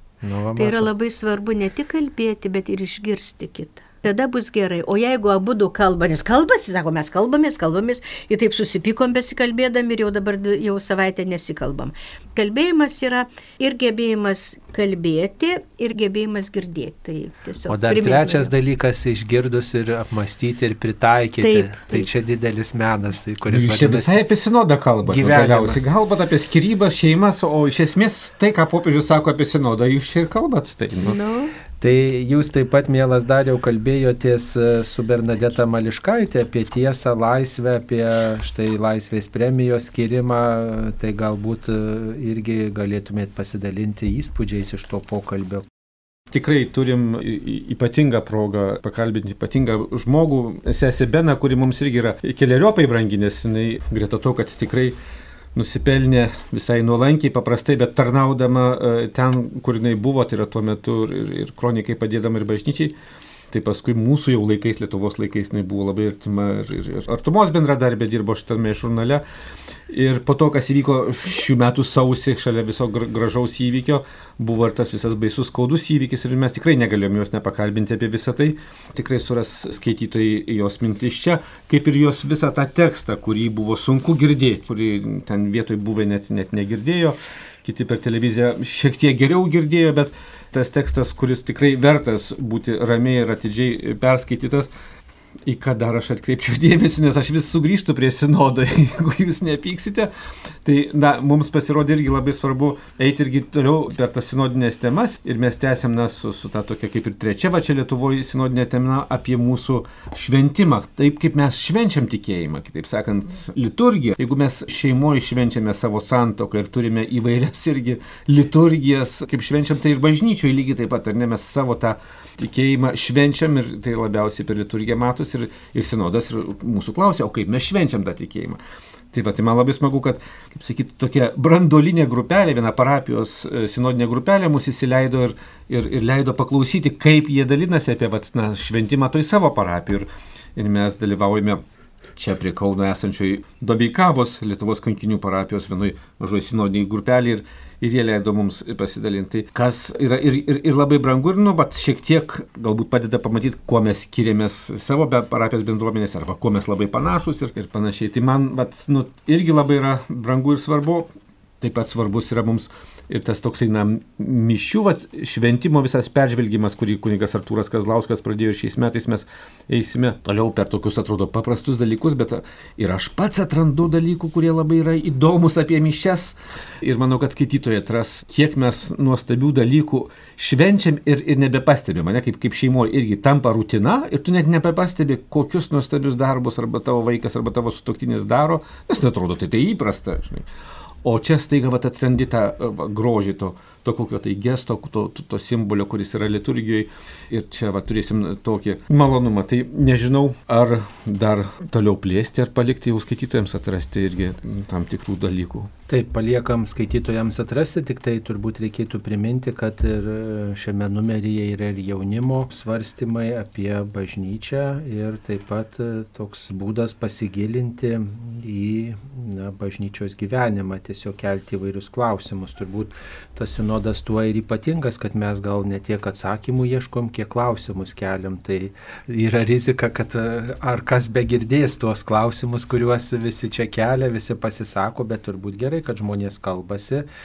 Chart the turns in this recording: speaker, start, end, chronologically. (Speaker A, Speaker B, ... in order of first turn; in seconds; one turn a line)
Speaker A: 0.2-0.9
Speaker B: 0.6-18.5
Speaker A: 17.7-24.2
Speaker B: 21.4-22.1
Speaker C: 23.5-31.2
Speaker A: 25.1-25.9
Speaker B: 31.0-31.5
Speaker A: 31.8-45.7
Speaker C: 46.3-55.0
Speaker C: 55.5-62.9
Speaker C: 63.5-69.2
Speaker C: 69.9-94.7
Speaker C: 95.5-100.1
Speaker C: 100.7-128.6
Speaker C: 129.1-141.6
Speaker C: 142.2-161.1
Speaker C: 161.6-190.5
Speaker C: 191.0-205.7
Speaker A: 205.9-237.1